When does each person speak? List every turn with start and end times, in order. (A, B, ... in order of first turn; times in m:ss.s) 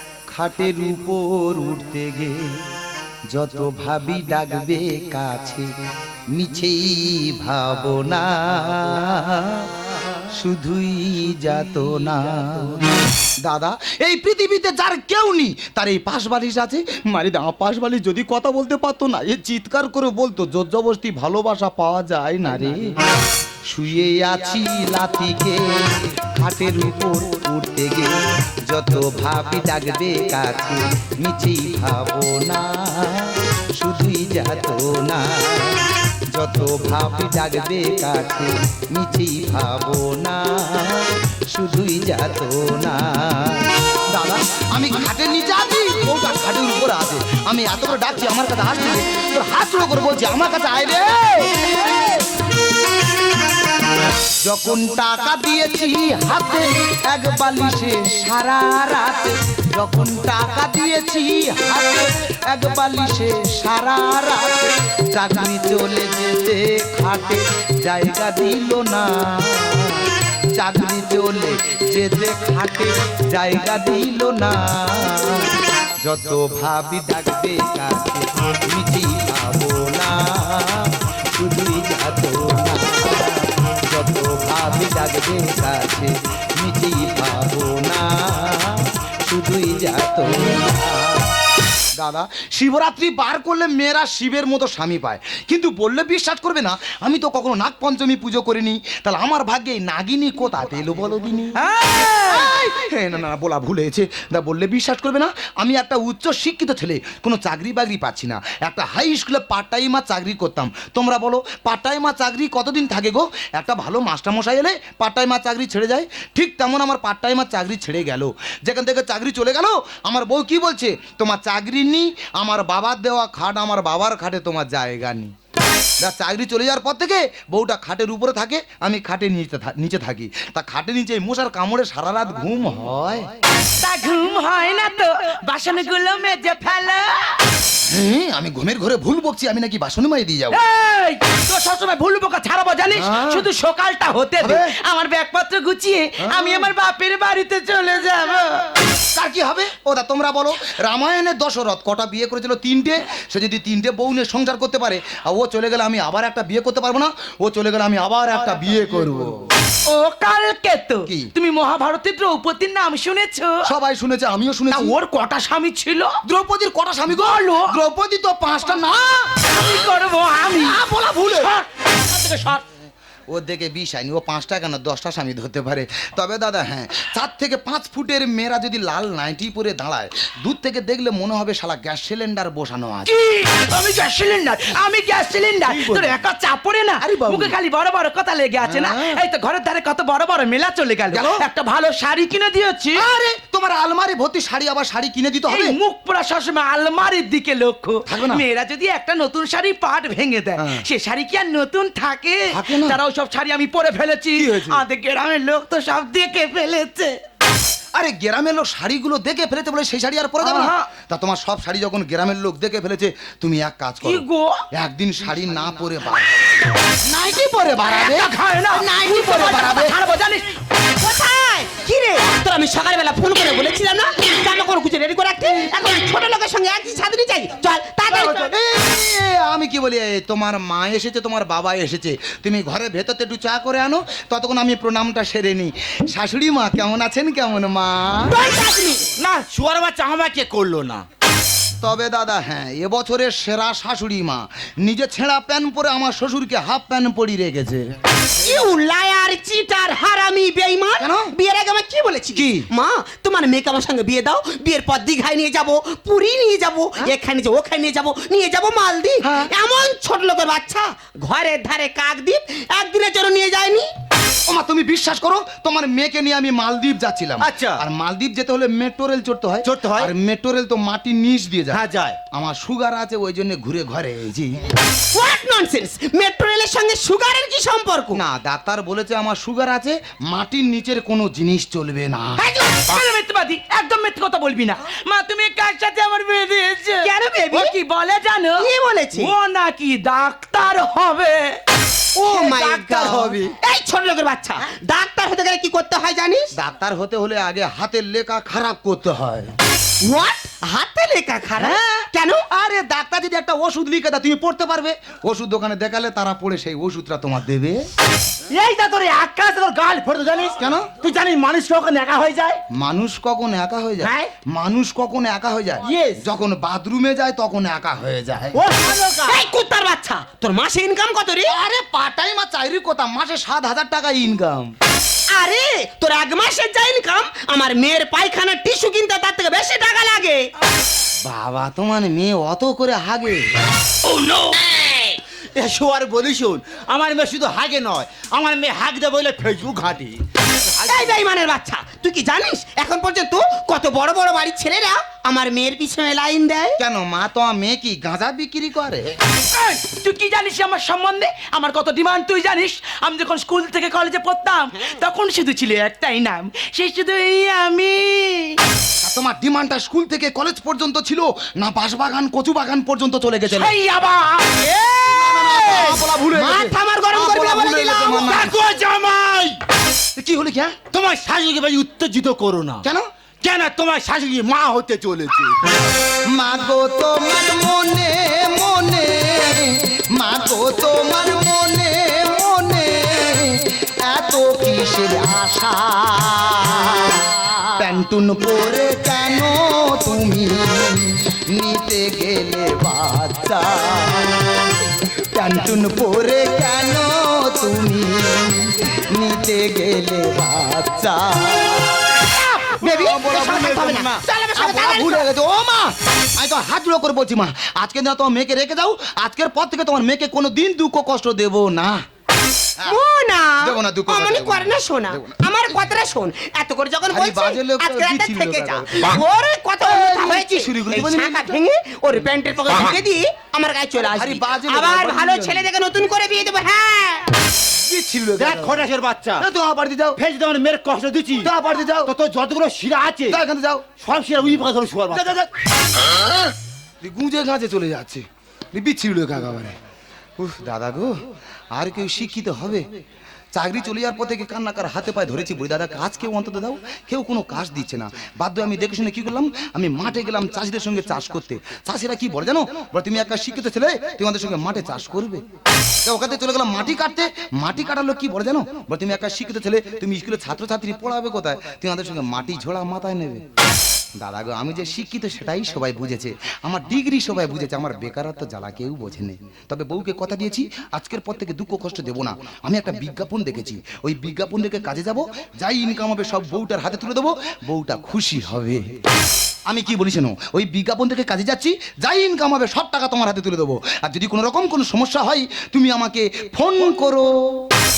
0:00.3-0:02.6 A
0:03.3-0:05.7 A
0:06.3-0:09.7 A
0:10.3-0:22.8 A
0:23.7-0:28.2 A
0:28.7-0:52.1 A
0:54.4-1:31.3 A
1:32.0-1:41.6 A
1:41.6-1:42.5 B
1:42.2-2:05.3 A
2:06.0-2:13.4 A
2:13.8-2:17.3 B
2:17.9-2:20.6 A
2:20.5-2:28.7 B
2:23.0-2:23.5 A
2:24.4-2:24.7 A
2:26.2-2:26.7 A
2:29.1-2:39.3 A
2:39.9-2:43.7 B
2:41.1-2:41.3 A
2:43.6-2:44.9 A
2:44.7-2:46.2 B
2:46.2-2:49.5 A
2:47.1-2:47.7 B
2:49.5-2:50.8 B
2:50.6-2:51.5 A
2:52.1-2:52.3 C
2:53.3-3:03.1 A
3:03.1-3:13.0 B
3:05.6-3:06.2 A
3:07.0-3:07.6 A
3:08.6-3:09.2 A
3:11.1-3:11.4 A
3:13.0-3:15.8 A
3:15.5-3:27.2 B
3:18.1-3:18.4 A
3:20.6-3:20.8 A
3:22.5-3:23.0 A
3:24.4-3:24.8 A
3:27.9-3:38.3 A
3:30.4-3:30.9 B
3:34.0-3:34.6 B
3:37.8-3:40.5 B
3:38.7-3:39.9 D
3:39.4-3:39.9 A
3:41.0-3:48.5 D
3:48.1-3:58.4 A
3:58.3-3:59.1 D
3:59.2-4:01.0 C
4:01.8-4:08.0 A
4:08.4-4:23.9 D
4:11.0-4:11.3 A
4:12.3-4:12.7 A
4:19.2-4:19.5 A
4:24.5-4:34.7 A
4:27.4-4:27.8 C
4:29.6-4:30.1 C
4:31.7-4:32.2 C
4:35.1-4:38.2 D
4:38.1-4:42.5 A
4:42.4-4:42.8 D
4:42.7-4:51.6 B
4:47.0-4:47.7 D
4:48.6-4:49.3 D
4:52.2-4:56.5 D
4:52.2-4:53.4 B
4:52.7-4:53.5 A
4:56.6-4:59.5 A
5:00.0-5:02.4 D
5:01.6-5:07.8 A
5:08.5-5:12.6 C
5:10.6-5:10.9 A
5:12.7-5:18.6 A
5:14.0-5:14.3 C
5:15.8-5:16.2 C
5:18.5-5:19.4 C
5:19.3-5:21.5 D
5:21.5-5:24.7 A
5:25.3-5:30.5 D
5:31.2-5:33.7 A
5:34.1-5:35.0 C
5:35.5-5:40.2 C
5:40.8-5:41.2 C
5:40.8-5:46.8 D
5:46.8-5:49.2 A
5:49.5-5:58.6 B
5:59.0-6:03.8 A
6:03.5-6:04.7 B
6:04.6-6:08.4 D
6:05.1-6:08.5 A
6:08.1-6:09.6 C
6:10.2-6:10.8 A
6:10.9-6:12.8 C
6:13.4-6:15.6 C
6:16.3-6:34.5 A
6:35.3-6:42.1 A
6:42.2-6:45.2 D
6:42.8-6:52.0 A
6:52.9-7:07.3 D
6:53.6-6:55.4 A
6:57.1-6:59.2 A
6:59.8-7:01.6 A
7:04.1-7:05.7 A
7:07.8-7:08.8 A
7:08.4-7:09.5 C
7:09.4-7:10.2 A
7:10.2-7:11.5 C
7:11.4-7:12.1 A
7:12.1-7:13.4 C
7:13.3-7:13.9 A
7:14.0-7:15.5 C
7:15.2-7:15.4 A
7:17.0-7:19.8 A
7:20.4-7:21.2 A
7:21.7-7:22.9 A
7:23.6-7:35.4 A
7:36.0-7:43.5 A
7:44.2-7:59.0 A
7:59.7-8:07.7 A